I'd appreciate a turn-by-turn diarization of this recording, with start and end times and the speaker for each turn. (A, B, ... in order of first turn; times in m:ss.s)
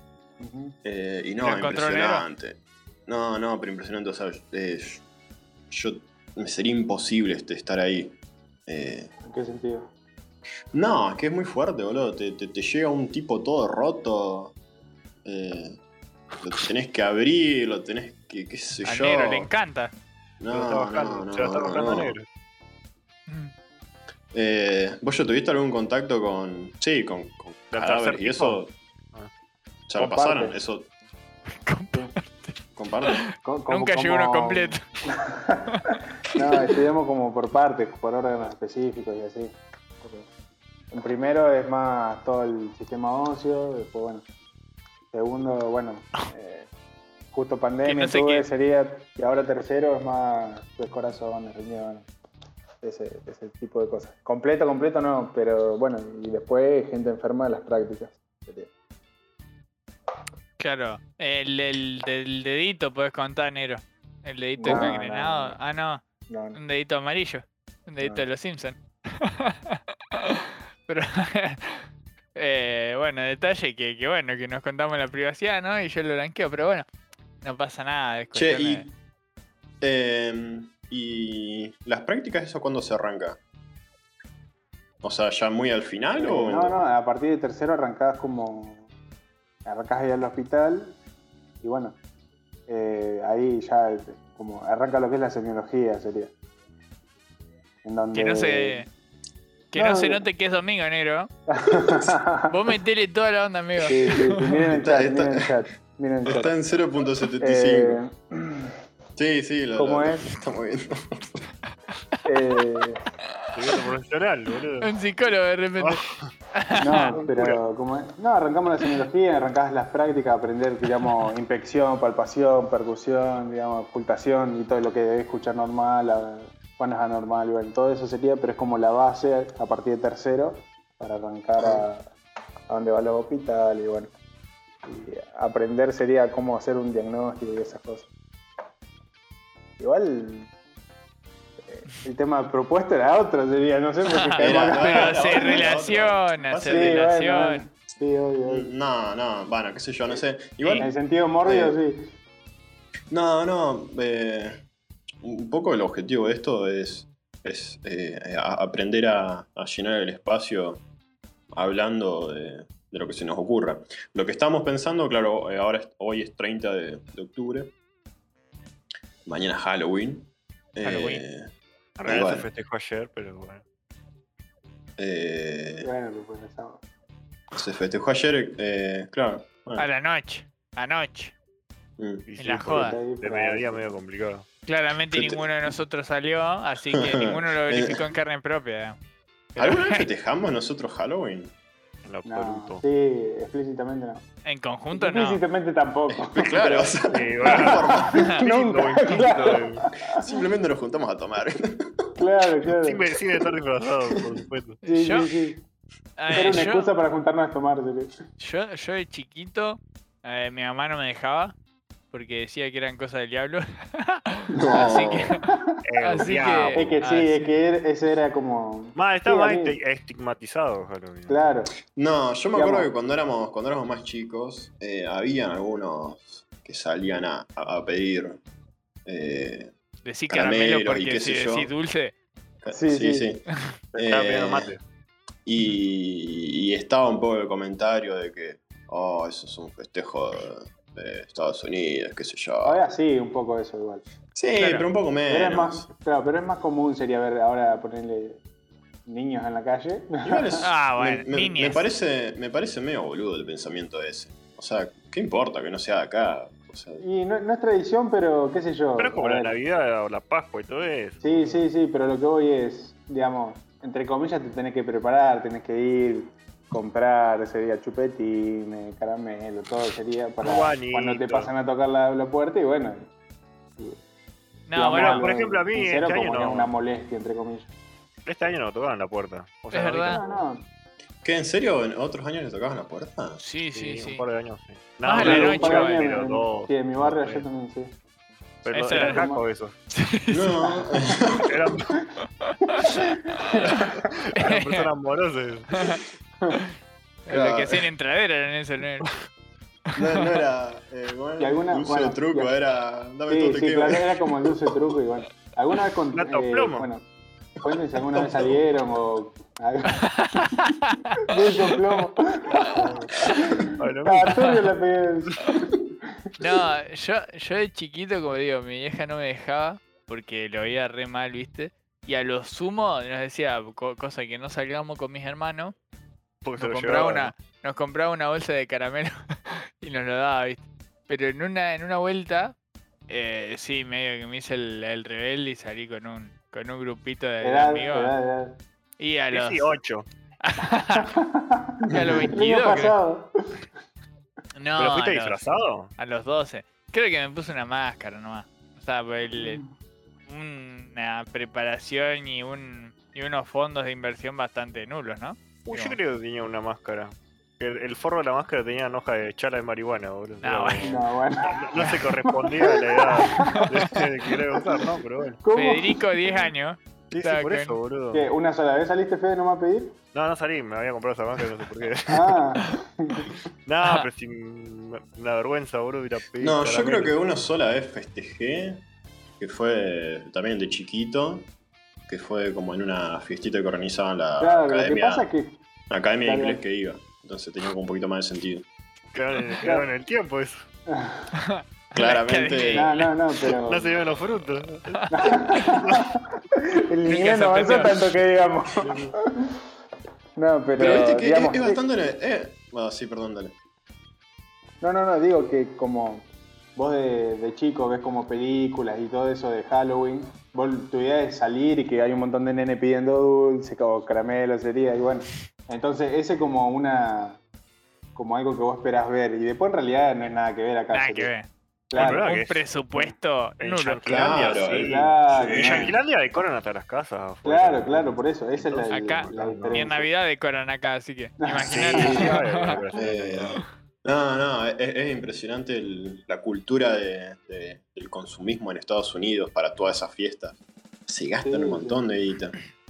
0:00.4-0:00.8 A
0:00.8-0:05.0 B
0:01.4-0:02.2 C
0:05.7-0:09.1 B
0:09.2-0:09.9 A
0:10.7-0:14.5 B
0:15.2-0:15.8 B
0:16.4-0:19.5 B
0:18.8-0:19.9 C
0:20.4-0:22.1 B
0:20.5-0:22.3 D
0:23.3-0:23.5 C
0:24.3-0:28.7 B
0:27.7-0:28.6 D
0:29.9-0:30.9 B
0:30.0-0:30.6 A
0:31.5-0:34.8 C
0:32.8-0:33.3 B
0:33.4-0:40.3 A
0:40.9-0:44.2 A
0:45.1-0:46.7 A
0:47.3-0:52.1 A
0:47.8-0:48.5 C
0:52.8-0:58.7 A
1:00.6-1:06.0 C
1:04.6-1:05.6 A
1:06.3-1:06.6 A
1:06.5-1:16.8 C
1:17.4-1:18.8 C
1:18.3-1:18.9 B
1:19.8-1:23.4 B
1:25.0-1:26.8 B
1:26.2-1:28.9 A
1:29.6-1:31.0 A
1:31.6-1:32.0 A
1:32.7-1:36.3 A
1:37.8-1:38.8 A
1:38.1-1:38.9 C
1:39.7-1:40.2 A
1:39.7-1:41.3 C
1:41.5-1:42.5 A
1:41.7-1:42.1 B
1:42.5-1:44.6 C
1:43.8-1:46.5 A
1:44.7-1:45.5 B
1:46.2-1:48.0 B
1:47.4-1:48.8 A
1:49.2-1:51.4 B
1:49.8-1:50.3 A
1:52.2-1:53.0 A
1:53.5-1:54.9 D
1:54.8-1:56.0 C
1:55.8-1:56.3 D
1:56.5-1:57.2 C
1:56.7-2:12.1 A
1:57.2-1:57.6 D
2:11.6-2:11.8 B
2:12.7-2:14.1 A
2:14.8-2:18.1 A
2:19.8-2:20.5 A
2:21.7-2:25.7 A
2:24.1-2:27.6 C
2:24.4-2:27.0 B
2:26.6-2:28.7 A
2:28.5-2:30.9 B
2:30.6-2:30.9 C
2:30.8-2:32.0 A
2:31.4-2:31.7 B
2:33.1-2:34.6 B
2:35.2-2:40.8 B
2:41.5-2:47.7 B
2:49.2-2:51.5 B
2:50.8-2:51.2 C
2:52.0-2:53.6 D
2:52.0-2:52.5 B
2:55.0-2:55.9 B
2:55.8-2:56.8 A
2:57.5-2:59.8 B
2:59.8-3:01.3 C
3:02.0-3:02.2 B
3:02.3-3:04.5 D
3:02.4-3:03.0 C
3:02.6-3:03.9 A
3:04.6-3:09.0 C
3:05.1-3:05.7 B
3:06.9-3:08.1 B
3:09.6-3:11.5 B
3:09.6-3:10.1 C
3:12.0-3:12.8 D
3:12.2-3:14.2 A
3:14.4-3:15.4 C
3:14.9-3:16.9 A
3:16.1-3:18.3 B
3:16.4-3:19.8 D
3:17.4-3:20.3 A
3:20.1-3:22.1 B
3:22.2-3:23.0 A
3:22.8-3:24.8 D
3:24.1-3:24.4 B
3:24.8-3:25.6 A
3:24.9-3:25.3 C
3:26.2-3:26.9 C
3:26.3-3:28.1 A
3:28.4-3:31.6 C
3:32.1-3:35.5 C
3:34.6-3:35.4 B
3:35.8-3:37.0 D
3:36.0-3:37.5 C
3:36.7-3:39.8 A
3:39.0-3:41.4 D
3:41.3-3:41.7 A
3:42.0-3:48.4 B
3:42.5-3:42.9 A
3:49.0-3:49.7 B
3:50.0-3:52.1 C
3:50.3-3:51.7 B
3:52.6-3:54.7 B
3:52.7-3:53.3 A
3:53.9-3:54.8 D
3:55.4-4:02.8 B
4:02.6-4:04.0 A
4:04.3-4:05.9 B
4:04.6-4:04.8 C
4:05.3-4:08.4 A
4:09.1-4:10.6 A
4:10.2-4:17.0 B
4:10.6-4:11.8 C
4:17.0-4:19.5 A
4:19.0-4:21.6 D
4:21.2-4:33.1 A
4:30.4-4:31.5 D
4:34.7-4:35.3 C
4:34.7-4:37.7 A
4:34.8-4:36.7 D
4:38.2-4:40.5 D
4:39.7-4:40.2 C
4:40.0-4:40.6 A
4:41.2-4:43.4 B
4:43.4-4:44.2 C
4:43.7-4:47.4 D
4:45.0-4:46.1 C
4:45.1-4:47.9 A
4:48.6-4:49.8 D
4:48.7-4:49.2 C
4:48.9-4:49.4 A
4:49.9-4:50.6 C
4:50.3-4:51.8 B
4:50.6-4:50.9 A
4:51.4-4:52.0 D
4:52.4-4:53.0 C
4:52.7-4:54.0 A
4:53.5-4:54.9 C
4:54.1-4:55.9 D
4:55.7-4:56.0 C
4:57.3-4:59.1 C
4:57.3-4:57.9 B
5:00.0-5:04.4 B
5:00.0-5:00.3 C
5:01.4-5:02.5 A
5:03.3-5:07.0 A
5:06.1-5:06.9 D
5:07.6-5:10.1 A
5:08.1-5:08.6 B
5:09.9-5:11.3 C
5:11.2-5:16.1 A
5:12.7-5:13.0 D
5:13.8-5:14.4 D
5:14.3-5:14.7 C
5:16.4-5:25.7 C
5:26.4-5:27.3 D
5:26.6-5:32.6 C
5:33.1-5:38.1 C
5:37.4-5:38.6 A
5:39.0-5:39.7 C
5:39.3-5:40.1 D
5:40.4-5:41.2 C
5:41.0-5:43.6 A
5:41.9-5:42.3 B
5:41.9-5:43.0 C
5:44.6-5:45.4 C
5:44.8-5:45.9 D
5:46.0-5:49.6 C
5:49.4-5:49.7 A
5:50.3-5:56.0 C
5:55.6-6:05.4 D
6:00.4-6:01.0 C
6:00.8-6:04.0 A
6:03.4-6:03.8 C
6:05.4-6:06.4 A
6:05.5-6:07.8 C
6:07.1-6:08.3 D
6:08.1-6:10.0 A
6:10.1-6:12.4 D
6:12.1-6:13.3 A
6:13.6-6:17.1 D
6:16.4-6:18.8 B
6:19.4-6:21.5 B
6:22.1-6:25.3 B
6:24.4-6:25.6 A
6:25.9-6:28.6 B
6:26.2-6:26.6 A
6:29.1-6:30.7 D
6:30.9-6:31.3 A
6:31.4-6:33.1 C
6:31.9-6:33.1 B
6:32.7-6:33.9 A
6:33.7-6:36.0 D
6:35.1-6:39.0 A
6:37.0-6:38.0 C
6:38.8-6:39.1 D
6:40.4-6:41.8 A
6:40.8-6:43.5 B
6:40.8-6:41.2 C
6:44.8-6:57.4 A
6:58.1-7:01.3 A
7:00.9-7:04.4 C
7:01.9-7:02.3 A
7:01.9-7:02.6 D
7:03.6-7:09.9 D
7:04.0-7:05.9 B
7:04.8-7:05.9 A
7:07.4-7:10.1 A
7:08.9-7:12.8 C
7:11.4-7:12.2 A
7:11.6-7:13.6 D
7:12.9-7:22.5 B
7:21.4-7:22.0 A